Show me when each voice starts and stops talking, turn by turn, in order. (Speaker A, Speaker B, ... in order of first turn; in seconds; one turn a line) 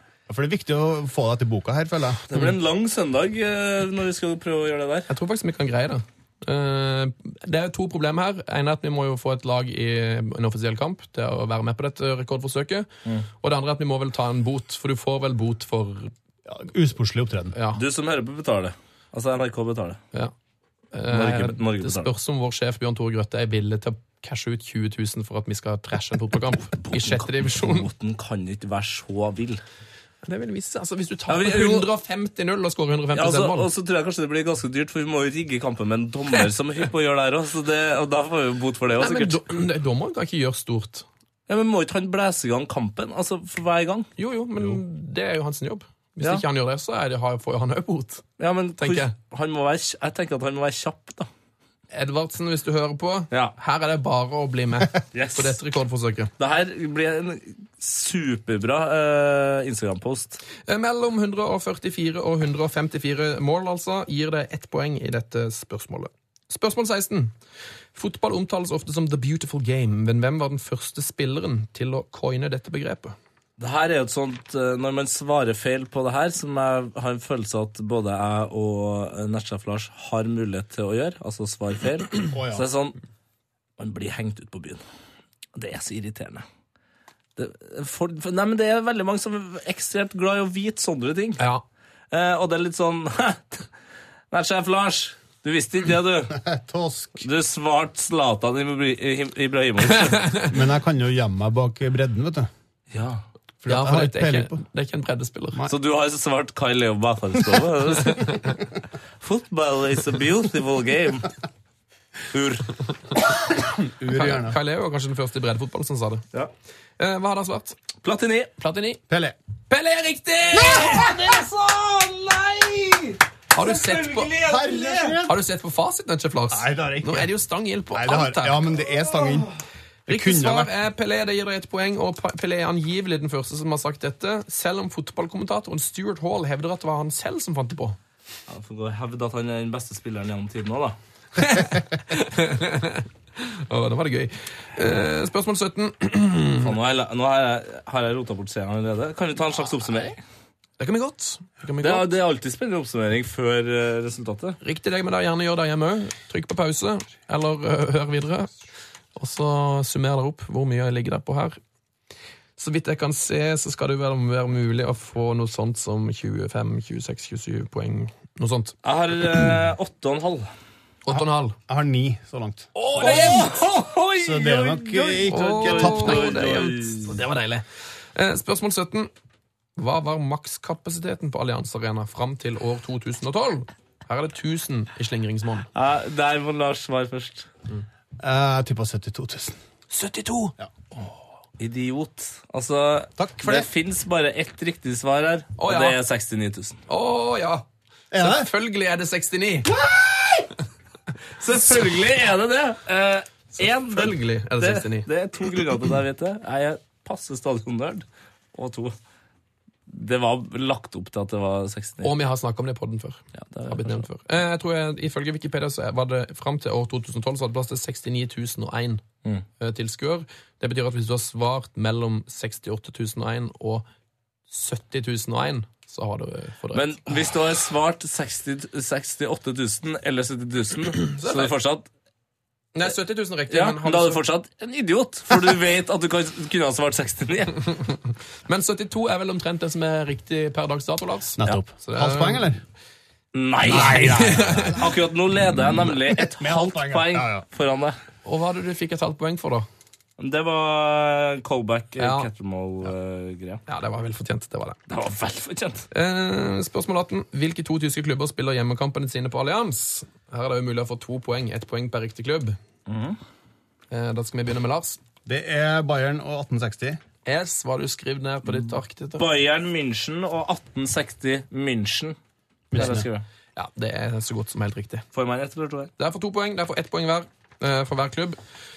Speaker A: 0.3-2.2
Speaker B: 2.3-5.1
Speaker C: 5.1-12.9
Speaker C: 13.4-16.1
Speaker A: 16.5-17.6
Speaker C: 17.5-17.8
Speaker B: 17.7-20.0
Speaker C: 20.9-27.9
Speaker B: 21.1-22.1
Speaker B: 26.8-29.6
Speaker C: 30.2-33.7
Speaker B: 31.3-31.9
Speaker B: 33.1-39.4
Speaker C: 39.0-41.1
Speaker B: 41.5-44.1
Speaker C: 44.2-48.3
Speaker B: 48.4-51.3
Speaker C: 48.8-49.1
Speaker C: 51.9-56.3
Speaker B: 55.1-55.5
Speaker B: 56.4-60.4
Speaker C: 60.6-67.3
Speaker C: 68.0-73.2
Speaker B: 73.6-83.0
Speaker A: 82.3-82.7
Speaker B: 83.8-84.8
Speaker B: 85.5-86.5
Speaker B: 87.4-91.4
Speaker C: 91.4-91.7
Speaker B: 92.1-93.7
Speaker B: 94.3-96.4
Speaker A: 96.3-97.2
Speaker B: 97.2-100.3
Speaker C: 100.1-100.5
Speaker A: 100.4-102.5
Speaker B: 102.9-103.2
Speaker A: 103.6-104.6
Speaker C: 103.7-105.7
Speaker B: 105.7-108.4
Speaker B: 109.2-111.3
Speaker B: 112.3-112.8
Speaker A: 113.7-114.6
Speaker C: 114.1-116.2
Speaker C: 117.0-117.8
Speaker B: 118.0-118.5
Speaker C: 118.6-119.0
Speaker A: 119.1-119.3
Speaker C: 119.7-121.1
Speaker B: 120.5-125.2
Speaker C: 123.5-124.3
Speaker A: 124.4-125.3
Speaker C: 125.2-128.7
Speaker A: 126.5-127.3
Speaker A: 127.9-129.5
Speaker A: 130.1-130.7
Speaker C: 130.1-138.0
Speaker B: 138.5-141.0
Speaker C: 141.4-146.8
Speaker B: 146.6-150.2
Speaker C: 150.8-152.1
Speaker B: 151.8-154.6
Speaker C: 154.6-158.5
Speaker C: 159.2-161.6
Speaker C: 162.6-168.8
Speaker B: 168.8-170.5
Speaker C: 171.1-171.6
Speaker A: 171.1-173.4
Speaker C: 172.8-173.5
Speaker B: 172.9-177.2
Speaker A: 174.2-176.5
Speaker C: 175.3-179.1
Speaker C: 179.8-185.7
Speaker B: 185.8-187.5
Speaker A: 188.2-189.6
Speaker C: 189.9-191.1
Speaker B: 191.6-196.8
Speaker A: 193.2-193.7
Speaker C: 195.6-196.0
Speaker C: 196.9-199.7
Speaker A: 198.1-198.5
Speaker A: 199.7-200.5
Speaker B: 201.4-208.9
Speaker C: 203.8-205.1
Speaker B: 209.9-212.1
Speaker C: 212.0-219.0
Speaker B: 213.3-214.1
Speaker C: 219.6-223.9
Speaker C: 224.5-227.2
Speaker B: 226.7-231.9
Speaker C: 231.2-231.6
Speaker C: 232.7-234.2
Speaker B: 233.5-237.6
Speaker C: 237.7-242.5
Speaker A: 241.4-242.6
Speaker B: 243.3-248.0
Speaker C: 243.7-244.8
Speaker A: 243.7-244.9
Speaker A: 246.2-247.4
Speaker C: 248.2-249.7
Speaker B: 250.2-253.6
Speaker C: 252.0-252.3
Speaker C: 253.7-254.8
Speaker B: 254.9-255.9
Speaker C: 255.9-262.6
Speaker B: 262.9-263.2
Speaker C: 263.9-265.0
Speaker A: 265.3-267.0
Speaker C: 267.3-269.3
Speaker B: 269.2-272.2
Speaker A: 272.7-273.1
Speaker B: 272.7-273.3
Speaker C: 273.6-275.1
Speaker B: 275.1-275.9
Speaker C: 276.0-278.4